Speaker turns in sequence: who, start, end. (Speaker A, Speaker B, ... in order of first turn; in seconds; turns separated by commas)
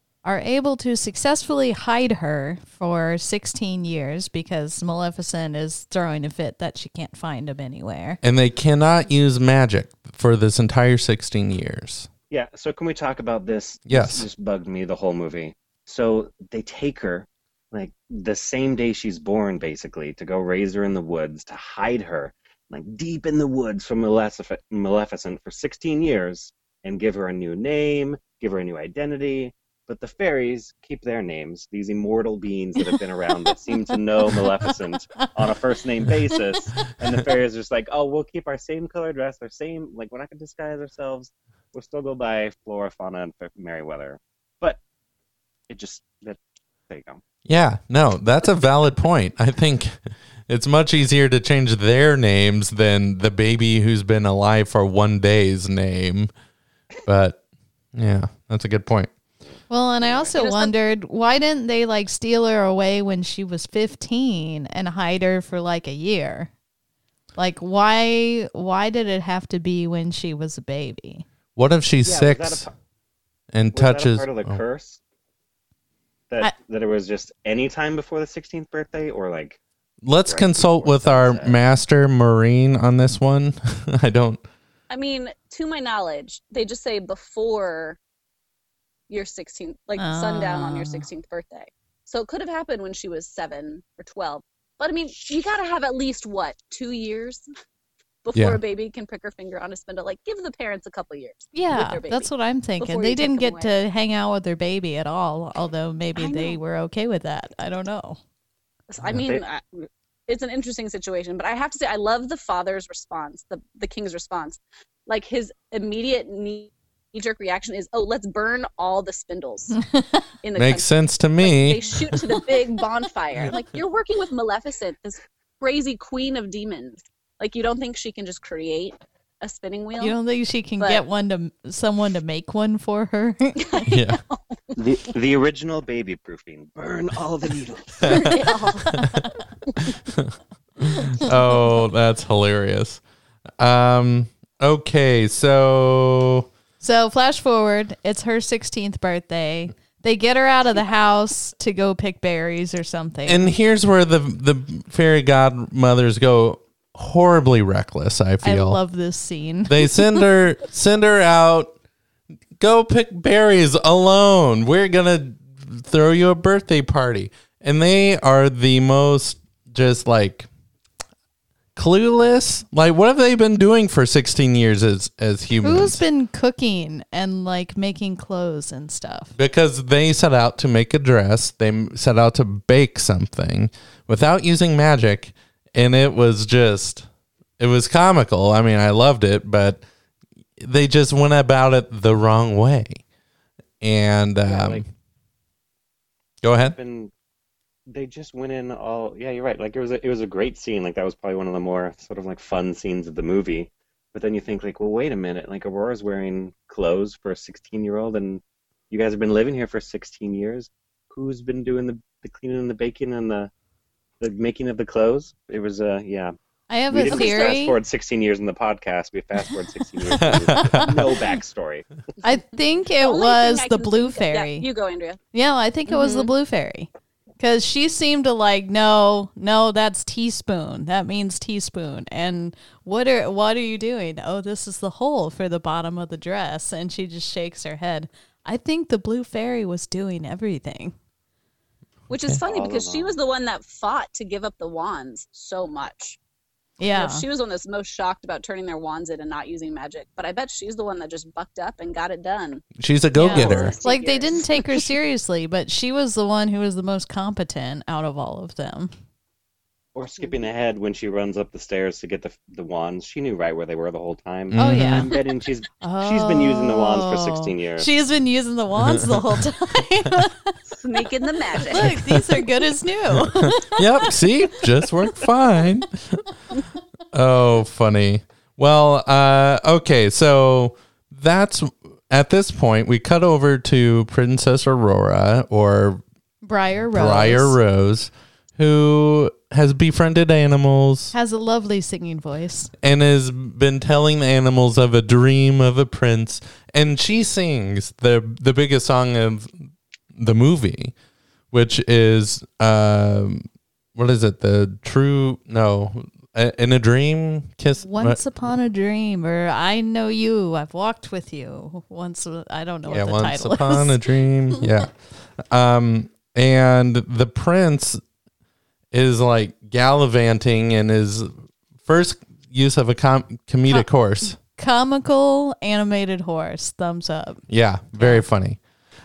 Speaker A: 0.2-8.2, Speaker B: 8.2-12.1, Speaker C: 12.3-44.8, Speaker B: 13.9-14.3, Speaker C: 45.7-47.2, Speaker B: 47.5-56.3, Speaker B: 57.0-57.4, Speaker B: 57.9-59.1, Speaker C: 59.5-60.3, Speaker A: 59.7-66.5, Speaker D: 60.4-60.7, Speaker A: 67.3-71.2, Speaker B: 71.5-72.7, Speaker C: 72.0-72.7, Speaker B: 73.5-74.6, Speaker C: 73.7-75.0, Speaker C: 76.3-79.6, Speaker B: 80.0-84.4, Speaker C: 80.2-81.6, Speaker D: 84.9-88.0, Speaker D: 89.1-97.4, Speaker A: 90.0-91.1, Speaker D: 98.2-103.8, Speaker B: 98.3-98.6, Speaker A: 101.5-108.2, Speaker D: 106.2-106.6, Speaker D: 108.9-109.6, Speaker C: 109.0-109.4, Speaker D: 110.3-119.8, Speaker D: 120.4-120.9, Speaker B: 120.5-122.2, Speaker D: 121.4-130.2, Speaker A: 130.0-133.8, Speaker D: 130.8-131.0, Speaker D: 133.6-134.6, Speaker B: 133.9-134.2, Speaker C: 134.8-138.4, Speaker B: 138.0-138.4, Speaker D: 138.1-139.0, Speaker B: 140.1-143.0, Speaker B: 143.6-146.5, Speaker A: 146.8-153.5, Speaker B: 153.2-158.8, Speaker A: 158.4-160.2, Speaker B: 159.7-161.7, Speaker B: 162.6-170.5, Speaker B: 171.8-176.0, Speaker A: 175.6-179.3, Speaker B: 179.4-187.1, Speaker B: 187.6-189.8, Speaker B: 190.6-193.0, Speaker B: 193.8-194.8, Speaker C: 194.4-194.8, Speaker B: 196.4-196.8, Speaker C: 196.6-197.1, Speaker C: 197.9-213.5, Speaker C: 214.2-216.3, Speaker A: 216.7-217.8, Speaker C: 216.9-221.8, Speaker D: 217.1-217.6, Speaker B: 220.2-221.0, Speaker A: 222.2-224.7, Speaker D: 223.0-225.2, Speaker A: 225.3-226.9, Speaker D: 225.9-226.3, Speaker A: 227.4-240.9, Speaker D: 242.1-246.2, Speaker C: 242.4-243.1, Speaker A: 246.8-247.2, Speaker D: 246.9-252.6, Speaker B: 252.8-253.7, Speaker A: 253.2-258.9, Speaker D: 253.2-254.8, Speaker C: 253.5-253.7, Speaker C: 259.9-267.9, Speaker B: 264.5-265.1, Speaker A: 264.5-265.1, Speaker A: 265.8-270.6, Speaker B: 268.8-269.4, Speaker D: 270.8-271.9, Speaker A: 271.6-274.1, Speaker B: 271.7-272.5, Speaker B: 273.1-276.2, Speaker B: 277.1-286.0, Speaker A: 286.4-287.6, Speaker B: 286.9-291.1, Speaker A: 291.1-292.7, Speaker B: 292.8-300.9, Speaker B: 301.5-308.2, Speaker A: 307.8-314.0, Speaker B: 312.9-318.0, Speaker B: 318.9-321.3, Speaker B: 321.8-324.4, Speaker A: 324.4-327.4, Speaker B: 327.5-328.6, Speaker A: 328.0-328.2